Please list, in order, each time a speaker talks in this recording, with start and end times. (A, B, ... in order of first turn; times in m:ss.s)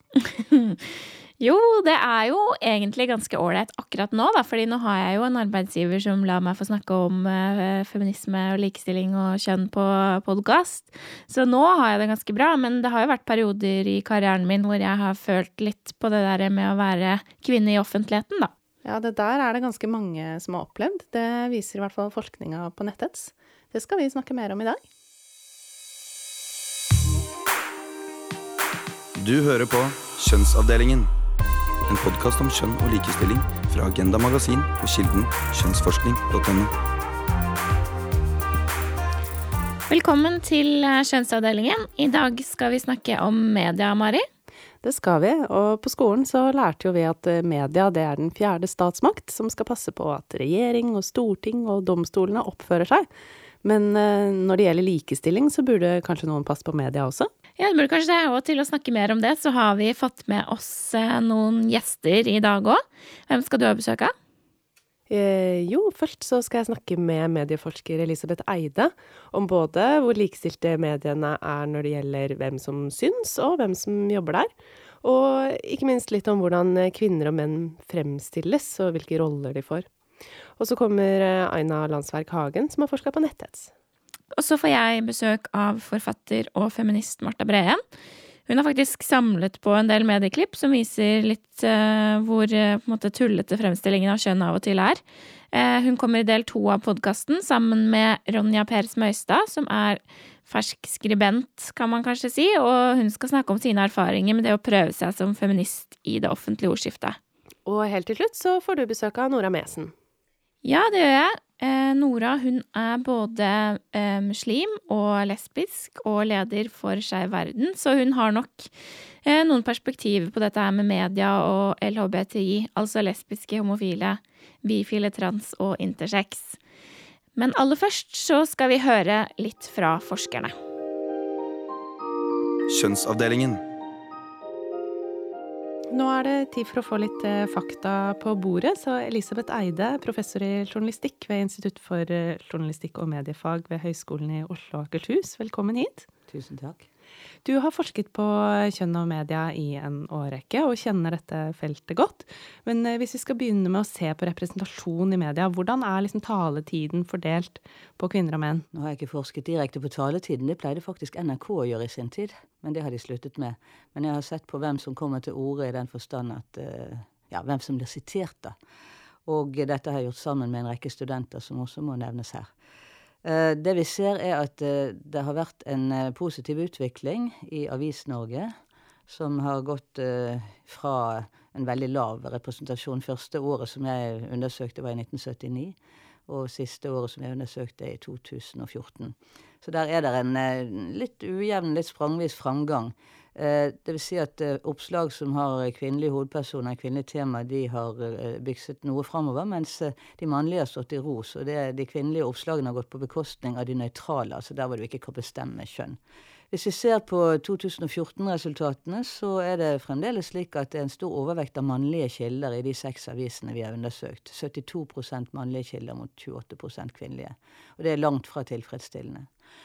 0:00.2-0:18.5 A
0:18.8-0:24.8 B
0:29.2-0:31.1 C
0:31.9-0:36.7 C
0:39.9-0:44.2 A
0:44.8-0:53.1 B
0:53.6-0:57.3 B
0:57.6-1:04.1 A
1:05.1-1:19.9 B
1:20.6-1:23.7 B
1:24.3-1:27.8 A
1:28.5-1:35.0 A
1:35.5-1:47.2 A
1:47.6-1:49.9 B
1:50.6-1:58.7 A
1:59.2-2:06.6 A
2:07.4-2:10.5 A
2:12.7-2:13.6 C
2:15.9-2:26.1 B
2:26.3-2:26.8 D
2:27.4-2:38.6 B
2:38.7-2:48.5 D
2:49.2-2:52.5 D
2:53.2-2:58.5 D
2:59.1-3:26.0 D
3:26.5-3:39.3 D